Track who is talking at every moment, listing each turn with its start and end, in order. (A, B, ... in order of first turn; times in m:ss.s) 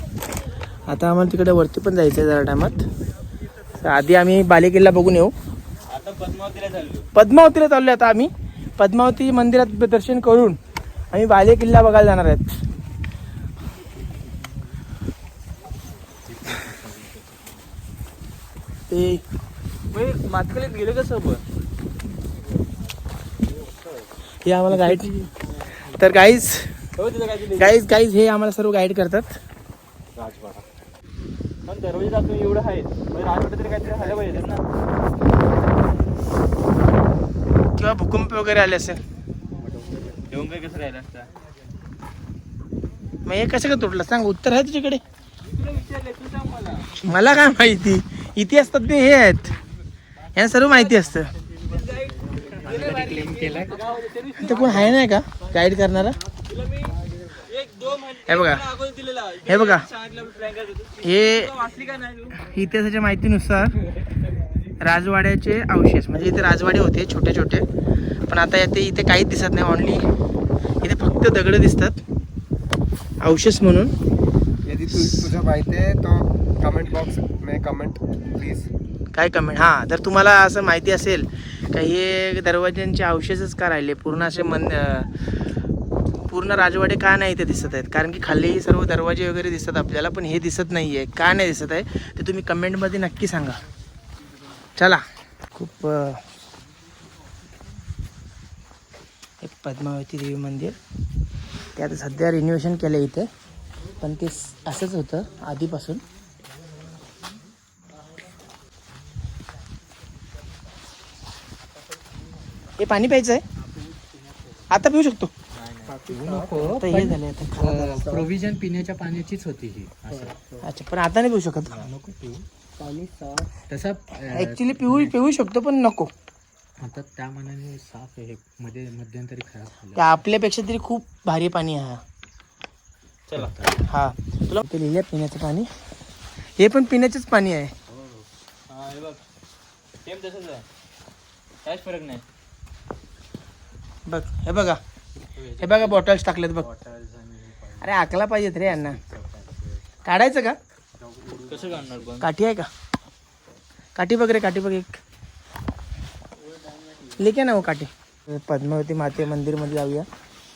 0:00.9-0:02.8 A
0:03.8-0:05.3 A
0:05.9-0:07.1 B
0:07.1-0:10.6 A
0:11.1-0:12.5 A
0:14.1-0:14.7 C
0:16.2-0:17.7 C
0:18.9-0:19.2 A
0:19.9-0:21.4 B
0:23.4-0:24.1 C
0:24.4-0:25.1 A
0:24.7-0:26.1 C
0:26.0-0:26.7 A
0:27.0-0:27.8 B
0:27.6-0:29.4 A
0:30.1-0:30.6 C
0:31.6-0:34.6 B
0:37.8-0:39.0 A
0:39.6-0:40.3 C
0:40.3-0:41.3 B
0:43.2-0:45.0 A
0:45.4-0:47.0 B
0:47.0-0:49.6 A
0:50.3-0:51.3 A
0:50.4-0:55.0 C
0:51.7-0:54.8 B
0:54.4-0:56.2 A
0:56.4-1:02.5 B
0:58.3-0:58.6 A
0:59.4-0:59.8 A
1:01.0-1:01.5 A
1:02.4-1:03.8 A
1:04.8-1:07.6 A
1:08.3-1:10.0 A
1:10.8-1:12.0 A
1:13.2-1:13.9 A
1:14.6-1:18.7 D
1:19.1-1:25.1 A
1:26.3-1:33.6 A
1:34.8-1:35.0 A
1:35.6-1:36.2 A
1:39.4-1:40.8 A
1:41.8-1:43.3 A
1:44.0-1:46.0 A
1:52.8-1:53.4 A
1:53.6-1:54.7 C
1:54.7-1:55.3 A
1:55.5-1:56.0 B
1:55.8-1:56.7 D
1:56.1-2:00.4 C
1:56.7-1:57.9 A
1:57.9-1:58.3 D
2:00.1-2:00.6 D
2:00.6-2:01.7 A
2:01.7-2:02.4 C
2:02.8-2:03.5 D
2:03.7-2:05.1 C
2:04.3-2:06.1 A
2:06.8-2:10.2 C
2:10.0-2:12.0 A
2:13.3-2:13.5 B
2:13.4-2:13.8 C
2:13.9-2:15.7 A
2:16.6-2:17.7 A
2:17.9-2:18.3 C
2:18.7-2:19.2 B
2:20.0-2:20.6 B
2:21.6-2:22.2 B
2:24.1-2:24.8 A
2:25.2-2:28.1 C
2:25.6-2:26.6 A
2:27.8-2:29.0 A
2:28.6-2:29.9 C
2:30.0-2:30.6 A
2:31.0-2:32.2 C
2:31.5-2:32.3 B
2:32.2-2:32.7 A
2:34.0-2:35.0 A
2:36.4-2:37.3 C
2:37.2-2:40.1 A